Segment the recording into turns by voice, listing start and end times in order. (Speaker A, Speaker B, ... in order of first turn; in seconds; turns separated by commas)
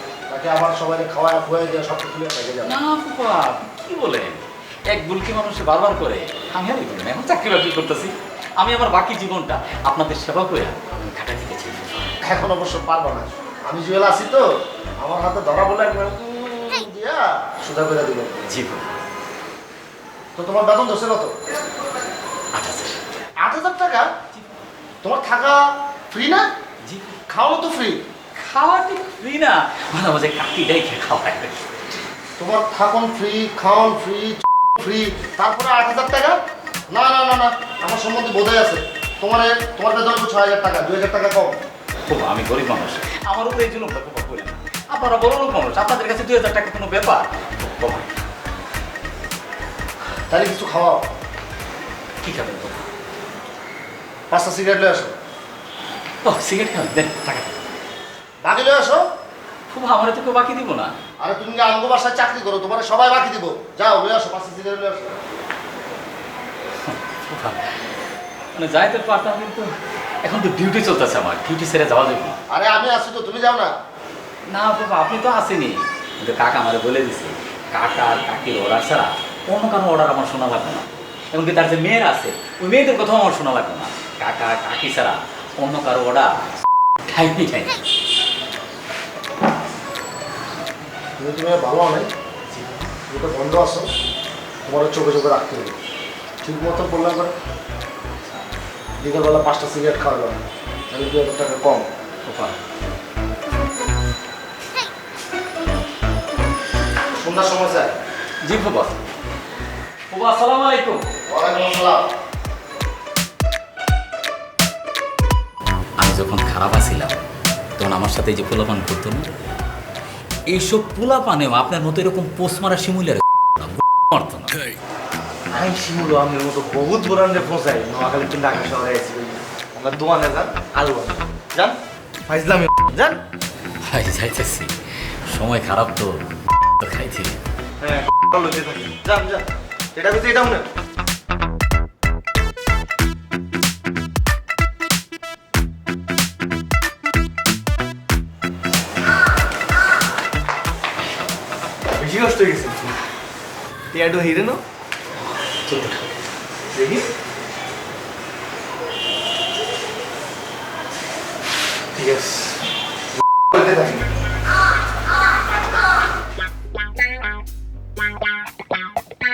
Speaker A: 0.3-2.8, Speaker B: 2.6-12.2, Speaker A: 12.2-14.5, Speaker A: 15.0-18.4, Speaker B: 18.4-18.9, Speaker A: 20.4-21.3, Speaker B: 22.5-23.0, Speaker A: 23.4-24.1, Speaker A: 25.0-26.4, Speaker B: 26.8-27.2, Speaker A: 27.3-28.0, Speaker B: 28.4-32.0, Speaker A: 32.4-36.4, Speaker A: 36.9-41.5, Speaker B: 42.0-48.1, Speaker A: 50.3-51.0, Speaker B: 52.2-52.9, Speaker A: 54.3-55.1, Speaker B: 56.2-57.6, Speaker A: 58.4-59.0, Speaker B: 59.7-61.0, Speaker A: 61.2-65.2, Speaker B: 66.8-67.7, Speaker B: 68.5-69.7, Speaker B: 70.2-72.4, Speaker A: 72.5-73.7, Speaker B: 74.5-86.3, Speaker B: 87.0-87.8, Speaker A: 91.2-92.1, Speaker B: 92.5-92.8, Speaker A: 93.1-93.9, Speaker A: 94.7-95.7, Speaker A: 96.4-97.3, Speaker A: 99.0-100.4, Speaker A: 100.9-101.9, Speaker B: 102.3-102.6, Speaker A: 107.2-107.9, Speaker B: 108.4-109.0, Speaker B: 110.1-111.0, Speaker A: 111.3-112.0, Speaker B: 116.0-117.1, Speaker B: 117.8-119.3, Speaker B: 120.5-124.5, Speaker C: 125.5-133.2, Speaker B: 133.8-134.7, Speaker B: 135.2-137.4, Speaker C: 137.8-140.7, Speaker C: 151.9-153.0, Speaker C: 153.9-154.6, Speaker B: 155.4-156.1, Speaker C: 156.7-157.1, Speaker C: 161.9-162.6, Speaker C: 163.5-164.0